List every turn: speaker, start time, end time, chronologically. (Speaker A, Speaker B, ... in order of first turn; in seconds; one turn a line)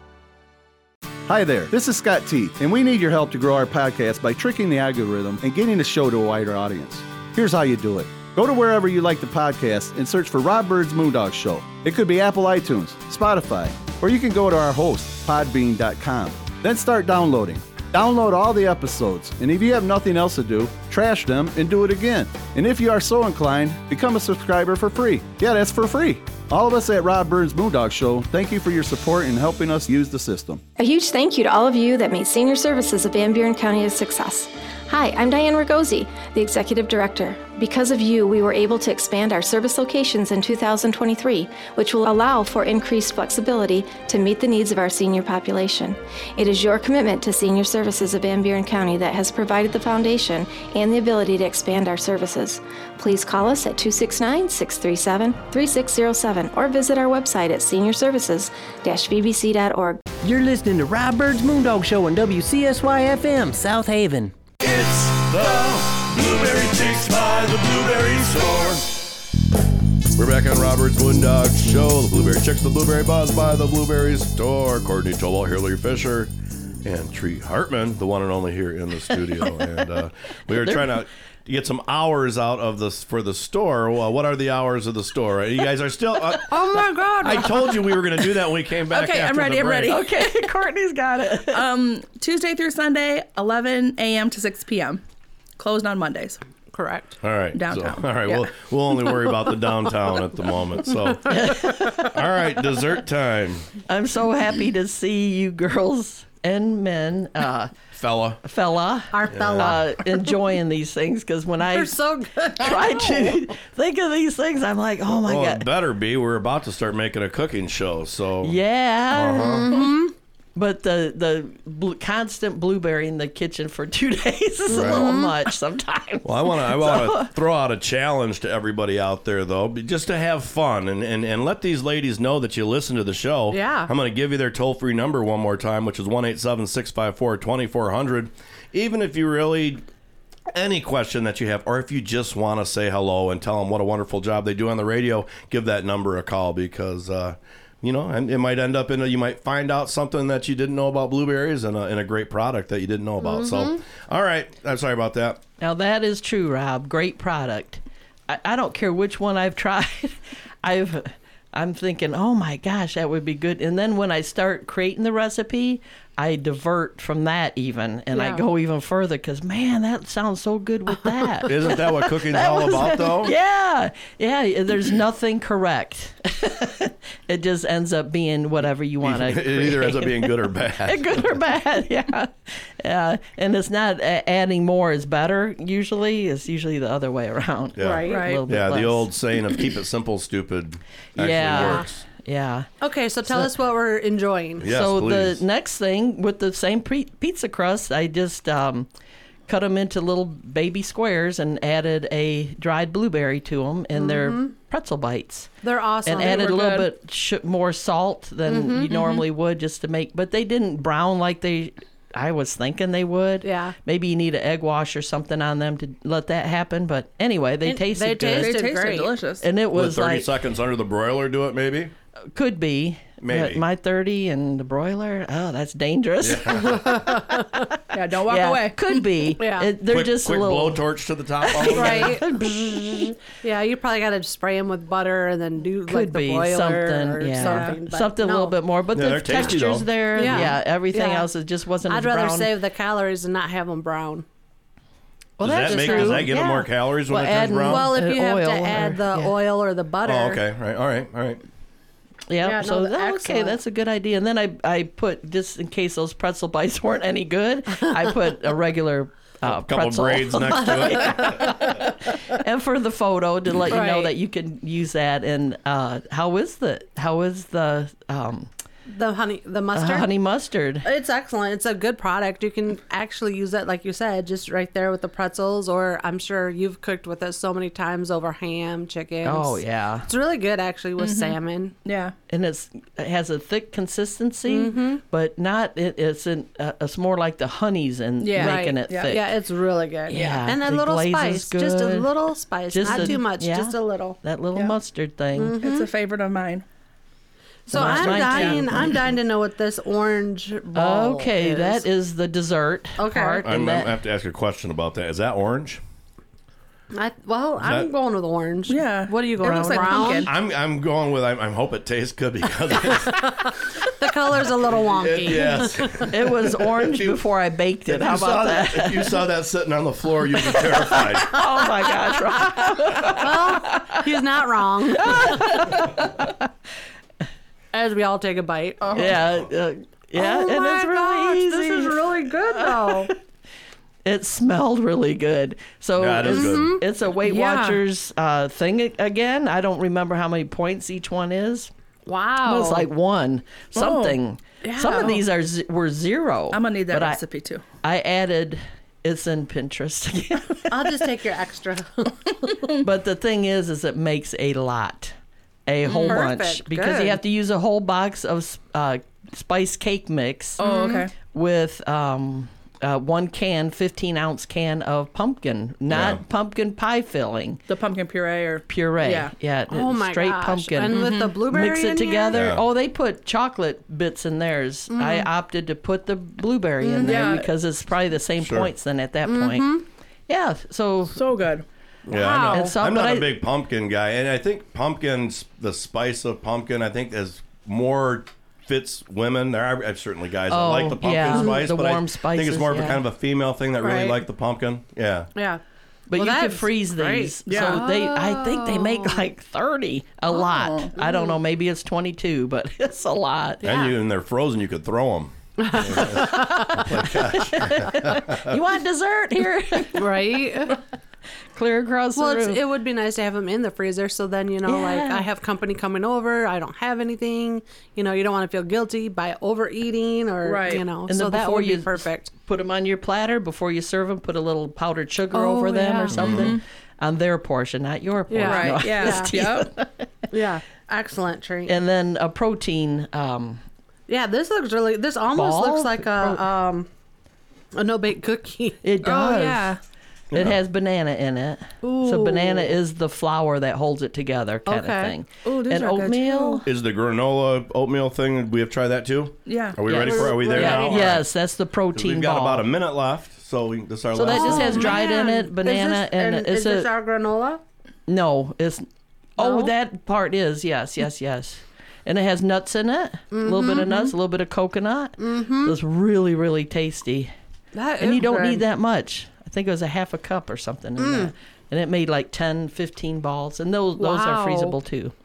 Speaker A: 1.3-30.6
Speaker B: 30.8-60.0
Speaker C: 60.2-64.3
Speaker D: 64.6-68.8
Speaker E: 67.0-67.4
Speaker E: 70.2-76.3
Speaker E: 76.8-90.0
Speaker F: 80.5-81.0
Speaker G: 86.4-88.0
Speaker H: 88.9-90.2
Speaker F: 89.9-91.6
Speaker H: 91.5-95.0
Speaker H: 95.6-96.4
Speaker G: 96.7-97.2
Speaker E: 97.2-101.4
Speaker H: 97.5-98.3
Speaker G: 101.0-102.2
Speaker F: 101.3-102.1
Speaker E: 102.0-103.7
Speaker F: 103.9-107.7
Speaker E: 107.9-108.4
Speaker F: 108.4-112.0
Speaker G: 109.1-110.4
Speaker E: 109.3-109.8
Speaker G: 111.6-113.5
Speaker F: 112.6-115.7
Speaker E: 115.1-118.6
Speaker F: 118.4-119.9
Speaker E: 119.1-119.7
Speaker G: 119.3-120.1
Speaker F: 120.6-127.3
Speaker G: 124.7-125.5
Speaker E: 124.7-125.0
Speaker E: 126.2-139.8
Speaker G: 133.5-133.9
Speaker E: 140.5-155.4
Speaker G: 153.2-153.8
Speaker F: 155.6-189.1
Speaker E: 171.5-173.3
Speaker E: 179.0-181.4
Speaker E: 187.8-192.0
Speaker G: 187.8-188.3
Speaker H: 188.1-188.4
Speaker F: 191.2-192.7
Speaker G: 191.5-191.8
Speaker G: 192.8-194.7
Speaker E: 194.6-195.4
Speaker F: 194.6-198.9
Speaker F: 199.5-205.5
Speaker G: 203.9-204.5
Speaker G: 205.6-206.6
Speaker F: 206.1-218.6
Speaker H: 206.2-206.9
Speaker G: 208.5-209.0
Speaker G: 213.4-213.8
Speaker G: 217.6-219.2
Speaker H: 218.3-219.4
Speaker F: 219.4-220.3
Speaker E: 219.7-221.9
Speaker F: 222.3-226.9
Speaker E: 223.2-223.6
Speaker E: 226.2-227.0
Speaker G: 226.6-227.7
Speaker H: 227.9-229.2
Speaker F: 228.3-230.8
Speaker G: 229.4-229.7
Speaker E: 229.9-232.2
Speaker F: 231.4-233.1
Speaker G: 231.6-238.6
Speaker F: 235.9-242.5
Speaker H: 237.3-237.8
Speaker E: 238.9-240.5
Speaker G: 239.4-241.3
Speaker G: 241.8-244.2
Speaker F: 245.4-249.3
Speaker E: 245.4-247.9
Speaker G: 245.6-246.7
Speaker G: 247.6-250.4
Speaker E: 250.0-251.4
Speaker F: 252.3-268.5
Speaker G: 252.4-253.6
Speaker E: 259.4-261.7
Speaker G: 261.2-261.9
Speaker G: 263.7-264.1
Speaker G: 268.9-270.1
Speaker F: 269.7-270.9
Speaker G: 270.8-281.7
Speaker F: 279.2-280.1
Speaker H: 281.0-282.1
Speaker F: 282.3-289.3
Speaker G: 284.5-285.0
Speaker H: 288.2-289.1
Speaker G: 288.4-294.2
Speaker F: 290.1-292.1
Speaker H: 290.2-290.4
Speaker F: 292.7-295.6
Speaker H: 292.9-293.2
Speaker G: 295.4-295.9
Speaker H: 295.6-296.6
Speaker G: 297.7-301.8
Speaker F: 297.7-299.1
Speaker H: 297.8-299.1
Speaker F: 300.7-303.9
Speaker G: 303.0-303.4
Speaker E: 303.4-305.8
Speaker G: 306.9-310.3
Speaker E: 307.6-307.9
Speaker H: 308.7-310.3
Speaker F: 309.4-310.2
Speaker E: 310.2-313.3
Speaker G: 312.8-316.1
Speaker E: 314.8-317.2
Speaker F: 316.0-319.1
Speaker E: 317.9-321.4
Speaker F: 320.6-324.1
Speaker G: 322.9-326.0
Speaker F: 324.9-326.4
Speaker G: 327.7-329.2
Speaker H: 328.8-329.1
Speaker F: 328.9-333.1
Speaker G: 330.1-333.1
Speaker F: 334.1-341.7
Speaker E: 336.0-336.8
Speaker G: 336.2-336.8
Speaker H: 337.2-337.8
Speaker G: 342.1-342.9
Speaker F: 342.4-347.2
Speaker H: 343.8-344.2
Speaker G: 344.6-345.1
Speaker H: 344.9-345.2
Speaker H: 346.5-347.6
Speaker F: 347.8-351.1
Speaker G: 350.7-352.5
Speaker F: 352.8-355.1
Speaker F: 355.7-367.6
Speaker H: 355.9-356.3
Speaker G: 355.9-357.2
Speaker H: 360.6-361.1
Speaker G: 360.6-361.0
Speaker E: 365.9-366.2
Speaker H: 367.7-369.4
Speaker F: 368.7-381.2
Speaker G: 369.7-372.4
Speaker H: 370.9-371.4
Speaker E: 372.3-372.6
Speaker G: 374.9-375.3
Speaker G: 376.8-377.3
Speaker H: 377.0-377.5
Speaker E: 378.4-378.7
Speaker G: 379.3-379.9
Speaker H: 381.1-381.6
Speaker G: 382.1-382.8
Speaker E: 382.1-395.3
Speaker F: 382.5-383.3
Speaker F: 390.5-393.0
Speaker G: 393.8-394.2
Speaker G: 395.4-395.6
Speaker F: 396.1-403.6
Speaker G: 396.1-399.3
Speaker H: 397.5-397.9
Speaker H: 400.3-400.9
Speaker G: 401.0-401.4
Speaker E: 403.6-408.5
Speaker G: 403.6-404.0
Speaker G: 405.6-406.9
Speaker F: 405.9-410.1
Speaker G: 409.9-410.8
Speaker F: 411.5-412.6
Speaker G: 412.2-422.3
Speaker F: 414.6-415.3
Speaker H: 420.4-420.9
Speaker F: 421.1-430.1
Speaker G: 425.3-426.4
Speaker E: 426.1-426.5
Speaker H: 426.3-426.6
Speaker G: 428.3-429.4
Speaker H: 428.4-429.7
Speaker G: 430.3-431.8
Speaker F: 431.7-433.6
Speaker G: 434.1-436.9
Speaker F: 435.3-436.4
Speaker G: 437.8-438.9
Speaker F: 438.8-439.8
Speaker H: 439.0-439.8
Speaker E: 440.3-440.6
Speaker F: 440.3-446.7
Speaker G: 441.8-442.7
Speaker G: 444.7-445.1
Speaker H: 445.4-446.6
Speaker E: 446.6-451.3
Speaker H: 449.5-449.8
Speaker F: 449.8-452.7
Speaker G: 449.9-451.2
Speaker E: 451.9-455.0
Speaker F: 454.1-456.9
Speaker G: 454.2-457.6
Speaker F: 458.1-458.9
Speaker F: 459.4-467.3
Speaker G: 459.4-459.7
Speaker G: 463.3-464.1
Speaker G: 465.2-465.8
Speaker G: 467.7-468.6
Speaker F: 468.0-475.1
Speaker G: 471.0-471.3
Speaker G: 474.0-474.8